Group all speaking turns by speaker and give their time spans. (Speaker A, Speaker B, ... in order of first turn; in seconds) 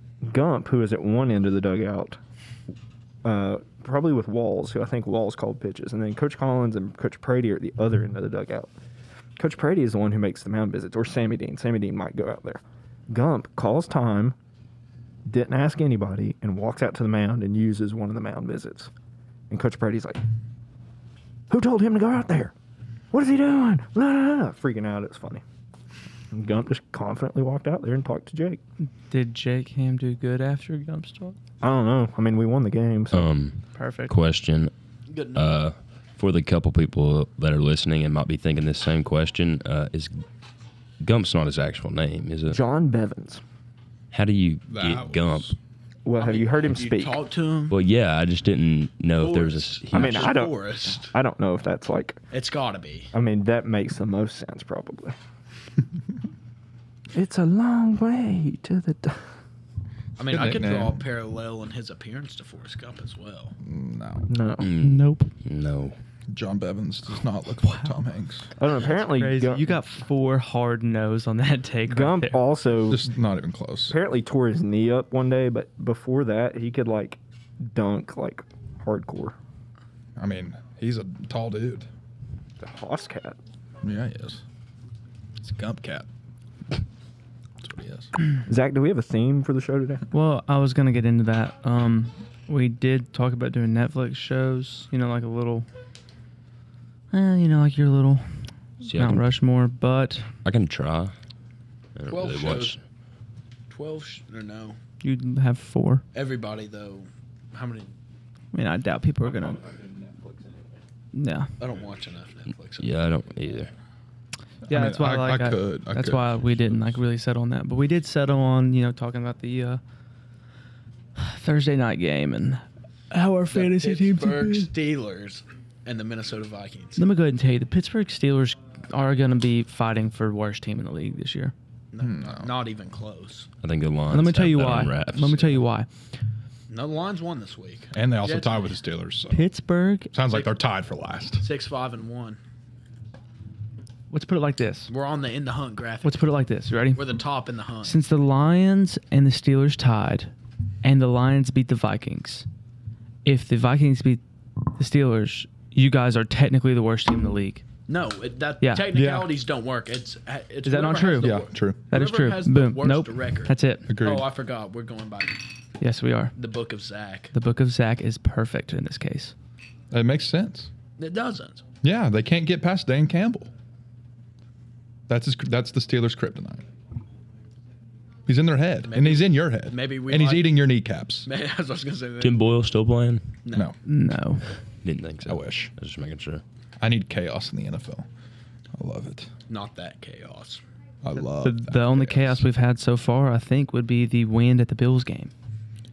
Speaker A: 0.2-2.2, 3.2-8.7, 9.4-14.3, 15.3-18.9, 19.5-20.2, 21.5-22.5, 23.1-25.4, 26.3-28.6, 31.6-33.3, 42.5-43.4, 46.0-47.2, 49.9-52.2, 53.1-55.1, 57.1-59.3, 64.3-64.7, 68.6-69.8, 71.8-73.1, 73.9-79.3, 82.6-83.4, 88.5-90.0
Speaker B: 29.1-31.4, 33.7-34.1, 64.8-65.3, 67.6-67.9, 69.1-72.4, 90.1-95.7, 97.1-98.3, 98.8-100.3, 105.0-106.0, 108.5-109.6, 111.1-111.5, 114.7-119.8, 121.2-124.7, 127.0-131.5, 134.1-135.9, 139.3-140.1, 144.1-144.9, 146.0-147.2, 147.8-150.3, 150.8-152.4, 153.2-154.2, 154.8-157.6, 158.6-158.9, 160.6-161.3, 161.9-163.9, 165.8-166.3, 167.3-169.3, 183.8-184.5, 191.4-195.3
Speaker C: 33.1-34.7, 35.3-40.2, 41.0-42.6, 44.1-45.5, 47.7-50.4, 64.6-66.0, 98.8-99.3, 100.4-101.1, 102.0-102.8, 112.8-113.7, 133.6-135.6, 182.2-183.4, 184.8-186.4
Speaker D: 35.1-35.6, 46.2-47.8, 49.2-51.1, 52.3-53.1, 60.2-63.5, 102.1-102.8, 103.7-104.8, 106.1-107.9, 111.6-113.0, 123.5-127.0, 131.9-133.5, 136.7-138.8, 141.4-142.4, 144.9-146.3, 146.9-148.0, 157.9-165.4, 166.3-167.3, 171.0-171.6, 178.8-180.6, 181.2-182.5, 183.4-183.7, 189.5-190.6
Speaker E: 44.7-45.5, 60.2-61.1, 63.6-64.3, 66.3-68.5, 72.8-74.0, 80.2-81.9, 83.8-84.4, 85.4-86.1, 87.6-88.1, 114.7-117.0, 132.0-132.6, 137.9-139.5, 140.1-141.5, 158.9-159.4, 161.2-161.9, 163.9-164.3, 169.9-170.7, 171.8-173.5, 175.1-176.7, 178.3-181.3, 183.5-183.8, 185.2-185.7, 186.8-188.1, 188.7-189.3, 191.0-192.4